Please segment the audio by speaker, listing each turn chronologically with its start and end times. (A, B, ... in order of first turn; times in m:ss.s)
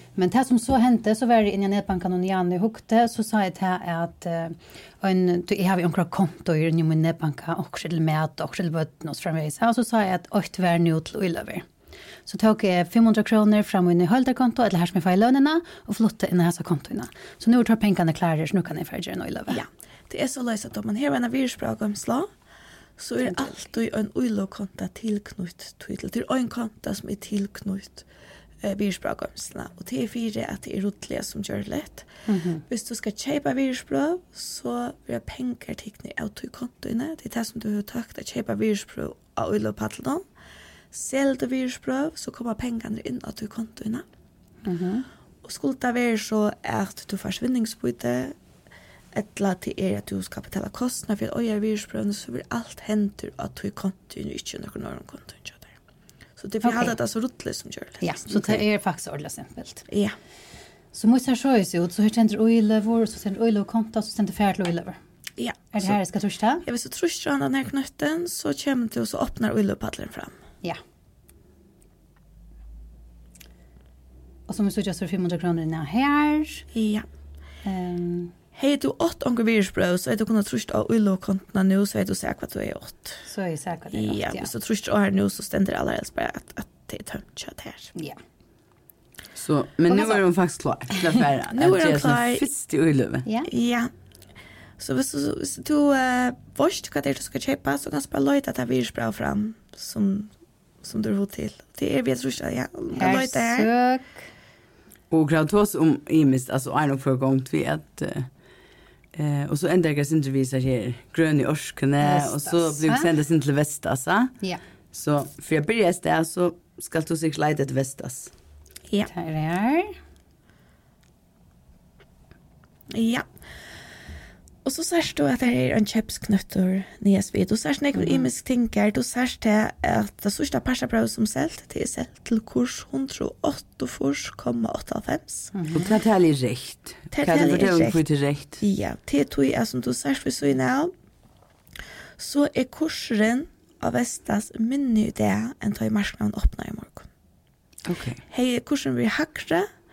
0:00.2-0:11.7 A
0:12.3-0:19.6 A
0:19.5-0:22.3 B
0:23.0-0:28.0 B
0:23.2-0:23.5 A
0:28.6-0:32.1 B
0:32.3-0:32.6 A
0:32.7-0:40.3 B
0:40.9-0:44.1 B
0:44.6-0:45.1 A
0:45.4-0:48.4 B
0:49.1-0:55.7 B
0:56.4-0:58.6 B
0:56.6-0:57.0 A
0:58.0-0:59.9 A
0:59.9-1:00.2 B
1:00.9-1:05.0 A
1:05.4-1:06.0 B
1:05.7-1:06.7 A
1:06.6-1:10.4 B
1:14.5-1:16.7 A
1:16.7-1:17.1 B
1:17.6-1:18.3 A
1:18.6-1:23.2 B
1:23.3-1:24.5 A
1:23.9-1:27.9 B
1:29.4-1:33.3 C
1:29.9-1:30.2 A
1:30.9-1:31.2 A
1:31.5-1:32.5 B
1:33.3-1:33.5 A
1:33.5-1:33.9 B
1:34.8-1:40.3 B
1:40.8-1:43.7 B
1:42.9-1:44.2 A
1:45.1-1:48.3 C
1:49.1-1:54.4 C
1:52.0-1:53.1 A
1:54.9-1:58.3 C
1:59.1-2:00.0 A
2:02.9-2:03.3 B
2:04.6-2:15.5 B
2:08.0-2:08.2 A
2:15.5-2:15.9 A
2:15.7-2:18.6 C
2:17.1-2:18.0 B
2:18.6-2:20.9 B
2:22.2-2:27.1 B
2:27.9-2:28.2 C
2:28.3-2:29.7 B